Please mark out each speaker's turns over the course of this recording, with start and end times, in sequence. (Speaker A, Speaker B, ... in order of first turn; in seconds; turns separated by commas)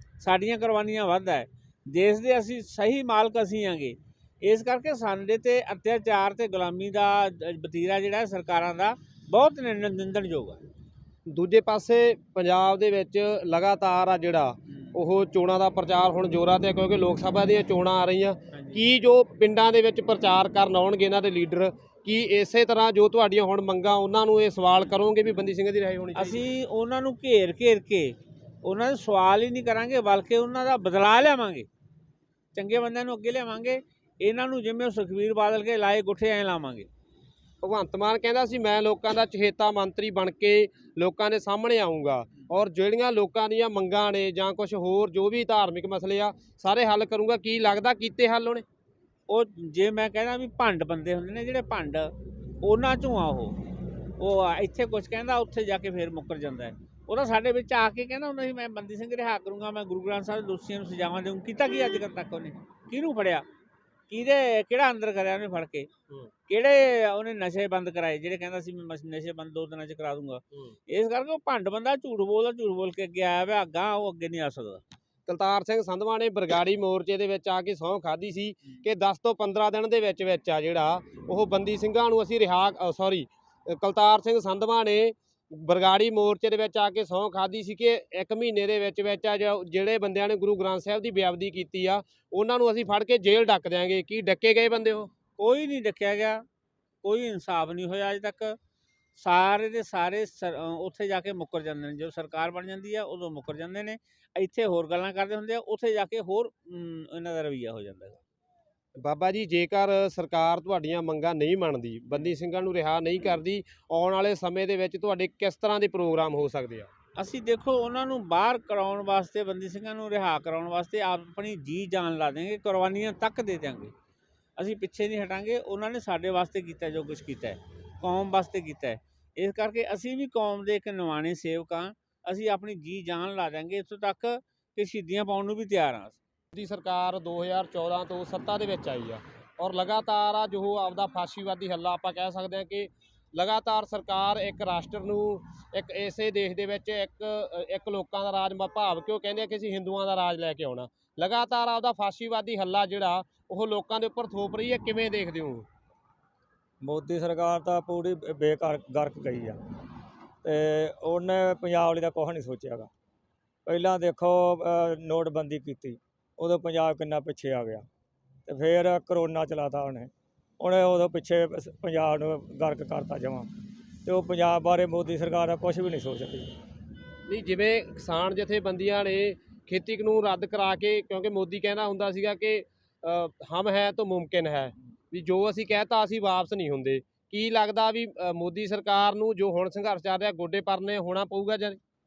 Speaker A: 0.2-10.6, Speaker B: 11.3-26.4, Speaker A: 18.5-18.8, Speaker A: 26.1-31.7, Speaker A: 32.5-36.9, Speaker B: 37.6-48.6, Speaker A: 49.3-53.6, Speaker A: 54.2-63.4, Speaker A: 64.1-65.9, Speaker A: 66.5-74.8, Speaker B: 75.3-95.1, Speaker A: 95.4-96.4, Speaker A: 97.0-98.6, Speaker A: 99.2-108.2, Speaker B: 109.0-116.9, Speaker A: 117.2-123.9, Speaker A: 124.6-136.2, Speaker B: 136.5-155.6, Speaker C: 156.8-159.6, Speaker C: 160.4-162.9, Speaker C: 163.7-167.8, Speaker C: 168.5-173.5, Speaker C: 174.0-176.5, Speaker B: 177.3-191.8